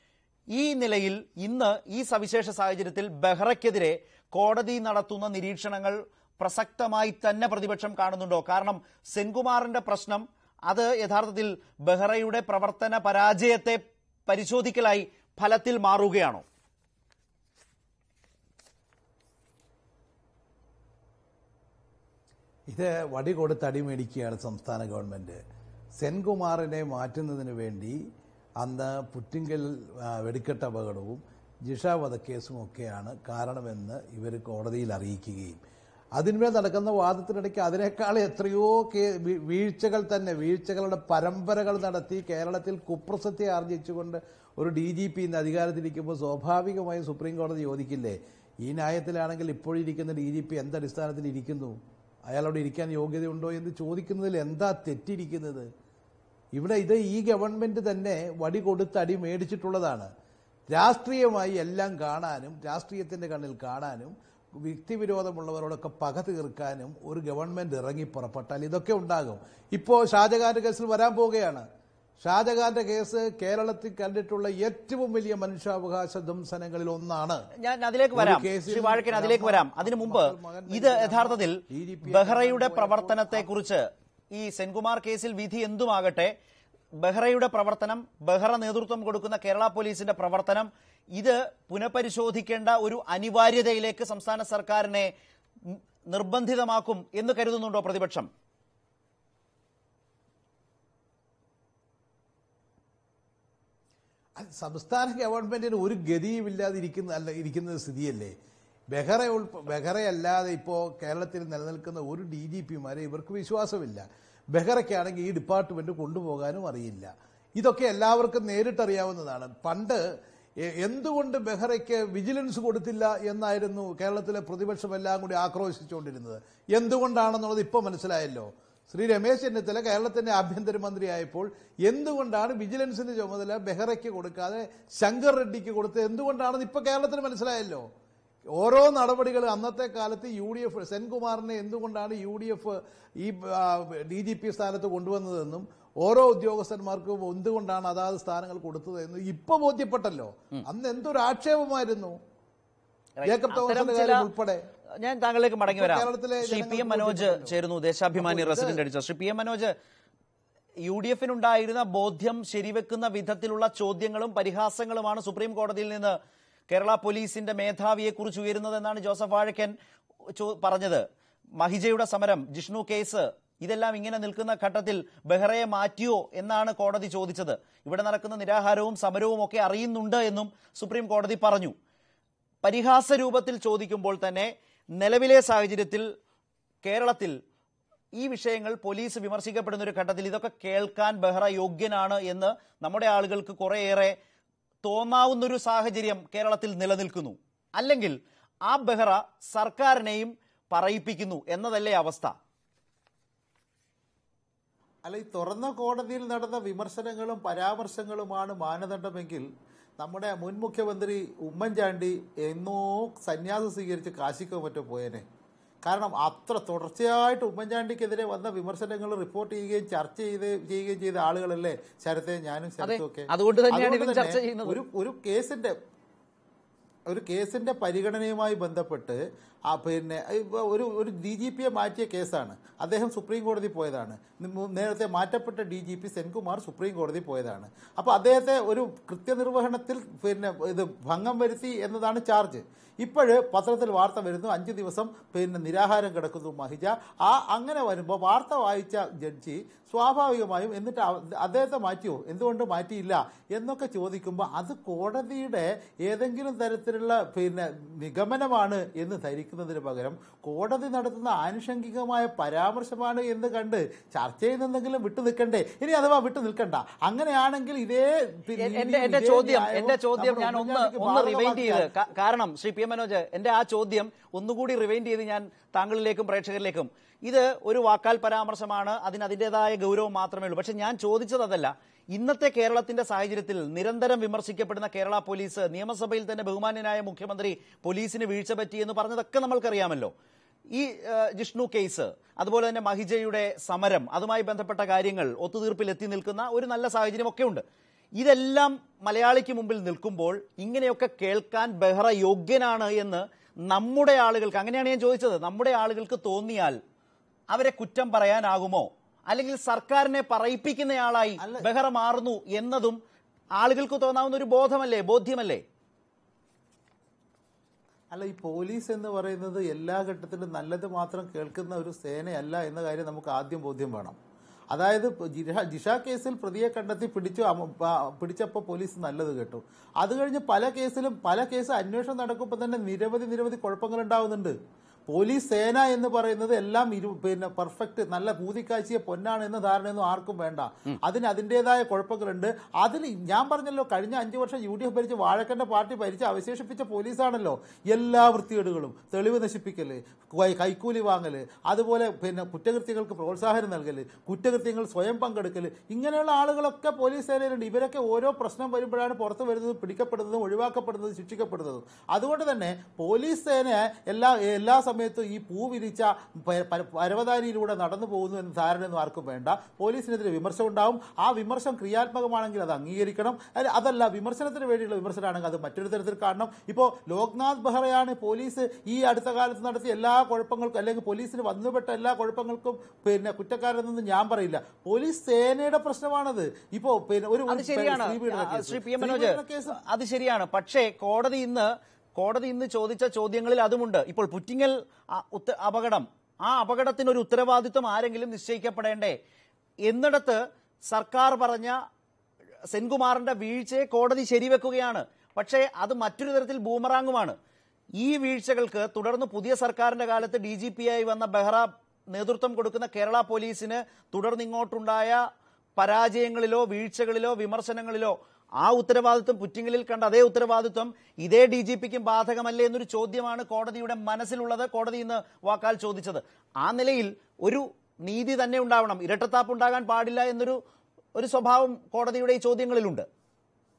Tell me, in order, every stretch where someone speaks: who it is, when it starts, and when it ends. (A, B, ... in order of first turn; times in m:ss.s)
0:00.5-0:16.4 A
0:22.7-0:25.4 B
0:26.0-0:28.0 B
0:28.6-0:35.6 B
0:36.2-0:55.7 B
0:56.5-1:00.1 B
1:00.7-1:11.6 B
1:12.2-1:17.4 B
1:17.6-1:26.3 A
1:18.1-1:23.5 B
1:27.0-1:35.1 A
1:35.7-1:38.3 A
1:44.4-1:48.4 B
1:48.9-2:00.0 B
2:00.7-2:17.9 B
2:18.6-2:32.2 B
2:33.2-2:34.3 A
2:33.2-2:34.6 B
2:35.0-2:39.8 A
2:35.7-2:37.6 B
2:38.2-2:38.8 B
2:40.8-2:46.2 A
2:46.7-2:49.7 A
2:50.4-2:51.1 A
2:51.6-3:01.8 A
3:02.6-3:06.1 A
3:06.8-3:07.4 A
3:08.2-3:14.2 A
3:14.8-3:22.3 A
3:25.0-3:29.5 C
3:30.0-3:35.2 C
3:35.8-3:45.7 C
3:42.8-3:44.8 A
3:47.1-4:32.0 C
4:28.6-4:50.1 A
4:50.7-4:57.6 A
4:58.2-5:06.8 A
5:07.5-5:13.0 A
5:11.4-5:11.7 C
5:13.6-5:15.6 A
5:18.1-5:24.2 C
5:24.7-5:34.6 C
5:35.1-6:29.8 C
6:27.5-6:39.2 A
6:39.9-6:41.8 A
6:42.7-6:47.4 A
6:48.0-6:55.2 A
6:55.8-7:10.6 A
7:11.2-7:13.1 A